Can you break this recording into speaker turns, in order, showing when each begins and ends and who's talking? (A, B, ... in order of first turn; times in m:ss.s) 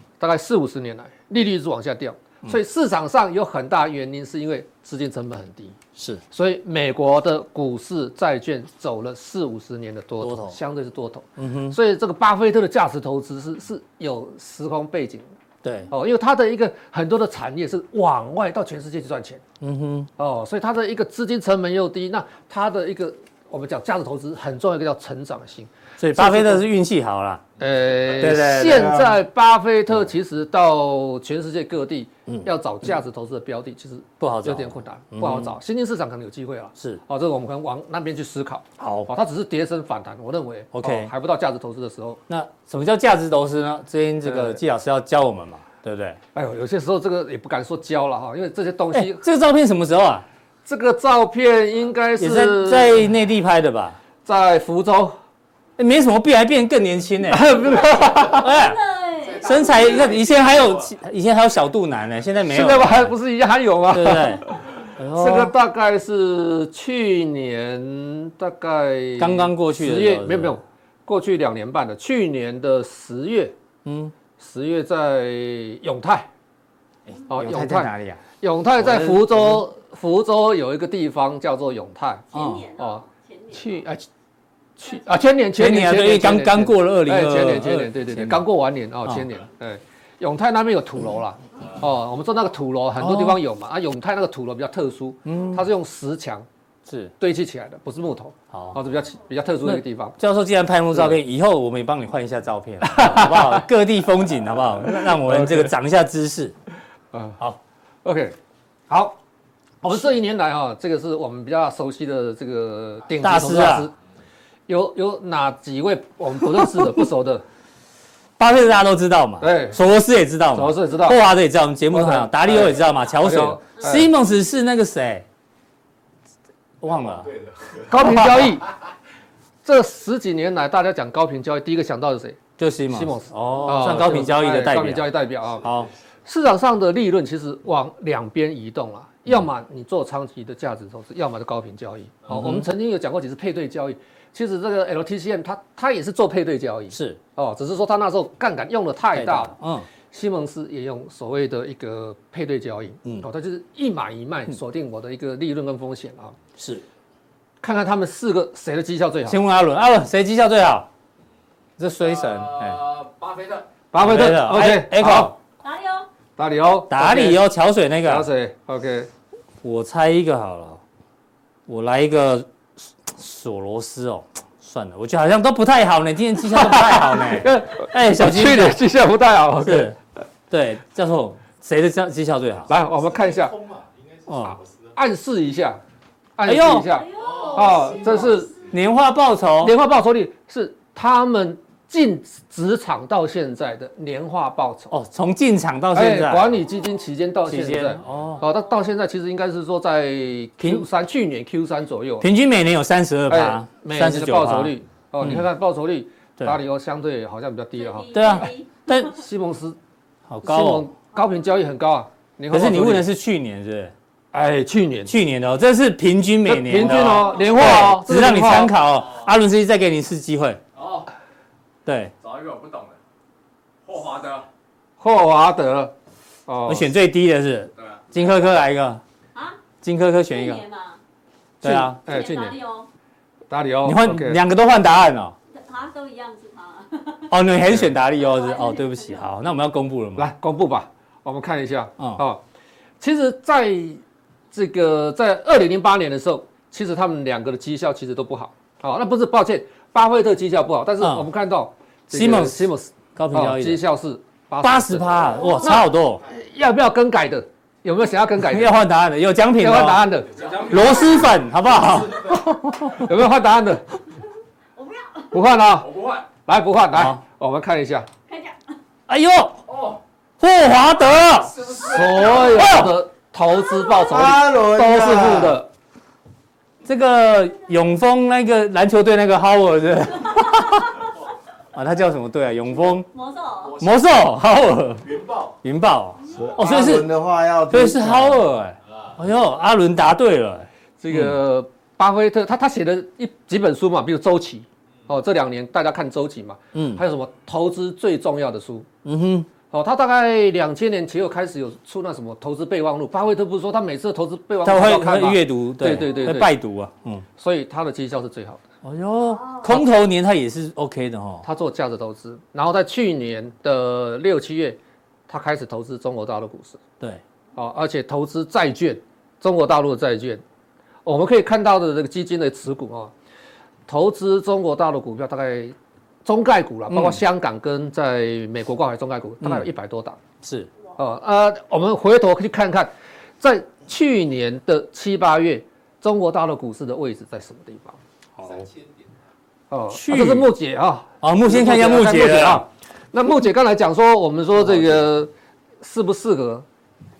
0:00.2-0:05.8 A
0:06.0-0:06.2 B
0:06.3-0:15.2 A
0:10.2-0:10.6 B
0:11.4-0:11.8 B
0:15.6-0:15.9 B
0:15.9-0:19.4 A
0:19.6-0:20.1 B
0:20.2-0:26.6 A
0:26.0-0:27.4 B
0:27.6-0:42.2 A
0:28.1-0:29.1 B
0:34.2-0:35.5 B
0:38.8-0:39.1 B
0:40.7-0:41.1 B
0:42.3-0:46.2 B
0:44.2-0:44.6 A
0:46.3-0:49.2 A
0:48.9-0:50.2 B
0:50.6-0:53.0 A
0:52.2-0:54.0 B
0:54.2-0:55.2 A
0:55.8-0:57.6 B
0:57.3-0:58.5 A
0:58.3-0:58.8 B
0:58.4-0:59.7 C
0:59.4-1:03.1 B
1:02.4-1:13.5 A
1:03.9-1:04.4 B
1:05.0-1:05.5 B
1:09.2-1:10.6 B
1:13.8-1:14.1 B
1:14.4-1:16.3 A
1:17.1-1:18.2 B
1:17.3-1:24.0 A
1:18.8-1:19.6 B
1:22.3-1:22.7 B
1:22.3-1:23.8 C
1:24.8-1:36.4 A
1:25.5-1:28.4 B
1:33.0-1:33.4 B
1:35.2-1:35.6 B
1:36.9-1:37.1 B
1:37.2-1:40.2 A
1:38.5-1:38.8 B
1:39.6-1:46.5 B
1:40.9-1:41.2 A
1:42.8-1:43.6 A
1:44.9-1:45.7 A
1:47.1-1:47.4 A
1:48.0-1:48.3 A
1:48.9-1:49.2 A
1:49.8-1:53.9 A
1:53.2-1:53.9 B
1:54.7-1:57.4 A
1:58.4-2:05.2 B
1:59.4-1:59.8 A
2:00.5-2:01.2 A
2:01.9-2:04.1 A
2:06.8-2:07.3 B
2:07.9-2:08.7 A
2:08.0-2:08.6 B
2:09.6-2:15.7 A
2:12.6-2:15.9 B
2:16.2-2:29.5 A
2:22.3-2:22.7 B
2:26.9-2:27.2 B
2:29.1-2:29.9 B
2:30.1-2:36.3 A
2:36.6-2:36.8 B
2:37.6-2:39.4 A
2:39.2-2:40.9 B
2:41.8-2:42.9 B
2:42.2-2:43.8 D
2:43.9-2:45.3 A
2:44.0-2:45.3 B
2:45.6-2:46.1 C
2:46.4-2:47.4 A
2:46.9-2:48.3 B
2:48.0-2:49.1 A
2:49.6-2:50.8 B
2:51.7-2:58.8 B
2:56.5-2:59.9 A
2:59.6-3:00.0 B
3:00.5-3:02.7 B
3:02.7-3:03.6 A
3:04.3-3:04.6 B
3:04.9-3:05.8 A
3:06.4-3:08.6 A
3:06.4-3:07.0 B
3:06.9-3:08.4 C
3:08.7-3:09.7 B
3:09.6-3:14.9 A
3:14.9-3:16.6 B
3:15.9-3:22.3 A
3:17.5-3:18.4 B
3:20.6-3:20.8 B
3:22.2-3:25.5 B
3:23.3-3:28.5 A
3:27.8-3:29.0 C
3:28.1-3:29.2 B
3:29.0-3:29.8 A
3:30.3-3:30.9 B
3:30.4-3:33.1 A
3:32.5-3:33.9 B
3:34.3-3:35.1 A
3:35.1-3:40.6 B
3:36.4-3:38.7 A
3:40.8-3:41.1 D
3:41.8-3:42.1 B
3:42.2-3:43.0 D
3:43.8-3:44.5 D
3:45.0-3:45.9 A
3:46.5-3:46.9 A
3:46.7-3:49.0 B
3:47.8-3:48.1 D
3:49.3-3:49.6 C
3:49.8-3:50.6 B
3:50.3-3:51.0 C
3:51.6-3:52.0 B
3:51.6-3:52.6 A
3:52.0-3:52.9 C
3:53.5-3:54.4 A
3:53.8-3:55.3 B
3:55.5-3:57.4 C
3:57.3-4:00.3 B
3:58.1-3:59.3 C
4:00.2-4:02.4 A
4:03.0-4:04.0 A
4:04.5-4:18.8 A
4:11.0-4:11.2 B
4:12.1-4:13.8 B
4:14.6-4:16.2 B
4:18.4-4:20.0 B
4:19.6-4:20.5 A
4:20.4-4:21.3 D
4:20.6-4:23.2 B
4:23.0-4:23.8 A
4:24.8-4:25.3 C
4:25.3-4:25.9 A
4:25.8-4:26.3 D
4:26.4-4:28.1 A
4:26.9-4:27.2 B
4:28.3-4:28.8 C
4:29.1-4:29.6 B
4:29.7-4:30.0 D
4:30.4-4:33.0 B
4:31.7-4:31.9 D
4:31.7-4:35.7 A
4:34.0-4:35.6 E
4:36.8-4:41.0 B
4:41.7-4:43.1 B
4:43.1-4:43.9 C
4:43.8-4:47.1 B
4:46.3-4:48.4 E
4:47.7-4:51.4 B
4:51.0-4:58.9 A
4:56.7-4:57.0 B
4:59.0-4:59.5 B
4:59.7-5:06.5 A
5:04.6-5:07.2 B
5:07.4-5:08.6 A
5:08.8-5:11.4 B
5:09.3-5:09.8 C
5:11.4-5:16.8 A
5:17.6-5:20.4 A
5:21.0-5:23.1 A
5:23.9-5:30.2 A
5:26.9-5:27.2 B
5:29.4-5:29.7 B
5:30.4-5:30.7 B
5:31.0-5:32.9 A
5:33.4-5:38.0 A
5:38.4-5:38.7 B
5:39.7-5:46.6 A
5:39.9-5:40.5 B
5:41.2-5:42.6 B